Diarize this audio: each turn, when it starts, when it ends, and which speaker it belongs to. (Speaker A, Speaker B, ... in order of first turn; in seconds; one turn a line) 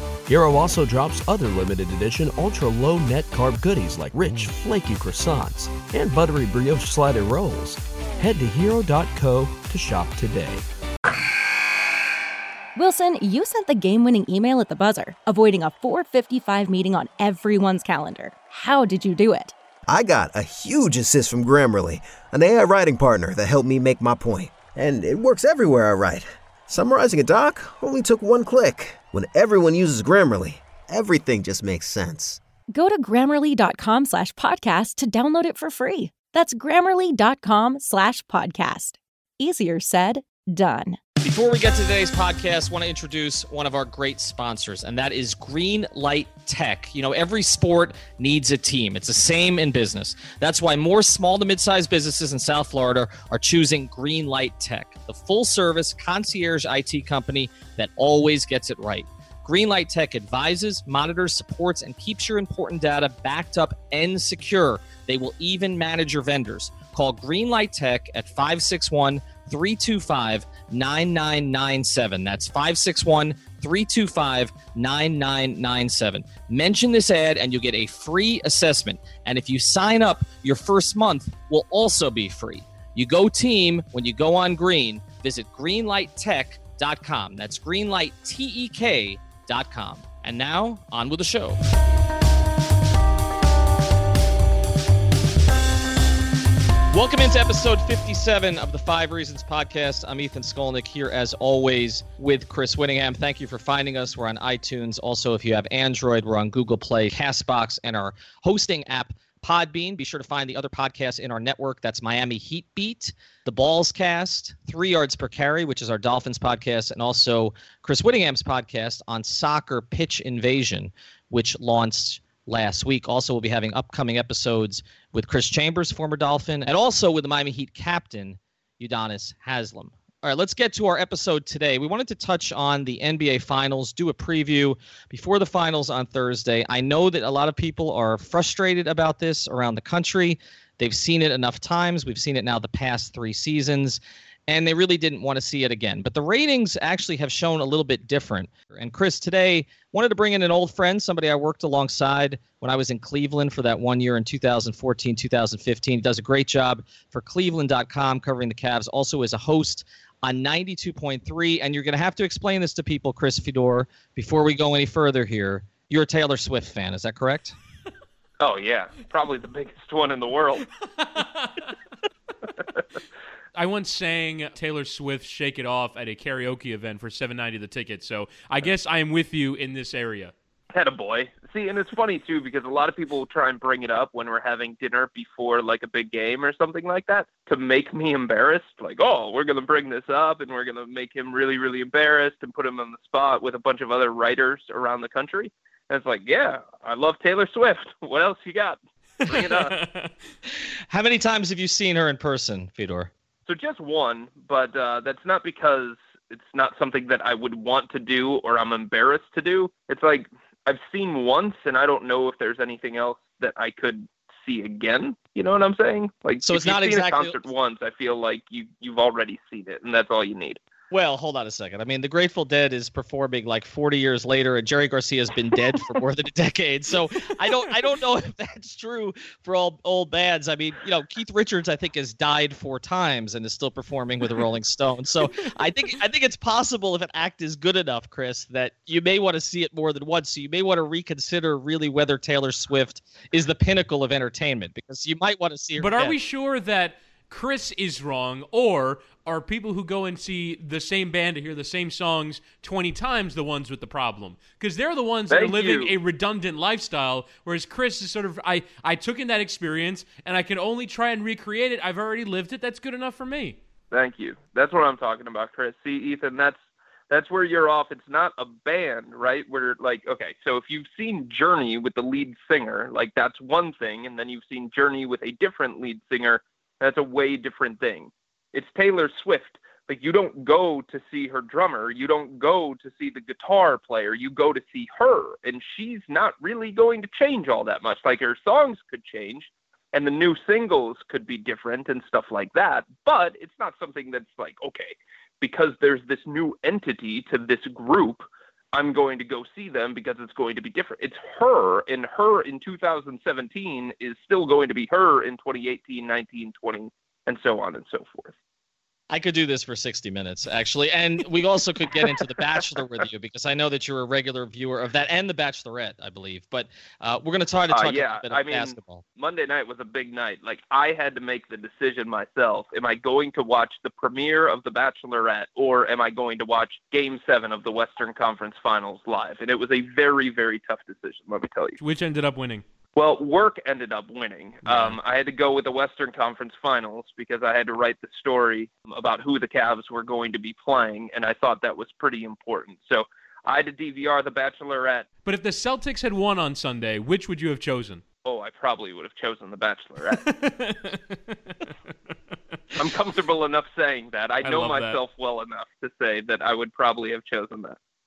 Speaker A: 0.3-10.7
Speaker B: 12.8-19.5
Speaker C: 19.9-32.4
Speaker B: 32.7-41.0
Speaker D: 41.2-91.6
Speaker D: 96.9-167.6
Speaker E: 168.4-170.7
Speaker F: 171.0-171.7
Speaker F: 173.6-180.3
Speaker E: 180.7-199.8
Speaker F: 199.3-200.1
Speaker D: 200.9-203.1
Speaker E: 203.5-220.6
Speaker D: 216.4-217.4
Speaker D: 220.9-246.2
Speaker F: 245.8-263.6
Speaker E: 255.3-255.9
Speaker E: 263.9-266.6
Speaker E: 267.1-308.3
Speaker D: 309.1-319.0
Speaker E: 317.7-331.8
Speaker F: 331.8-332.6
Speaker E: 333.0-345.1
Speaker F: 334.7-334.9
Speaker F: 345.2-348.0
Speaker E: 348.2-350.2
Speaker F: 350.2-351.7
Speaker E: 352.8-357.8
Speaker F: 354.4-355.0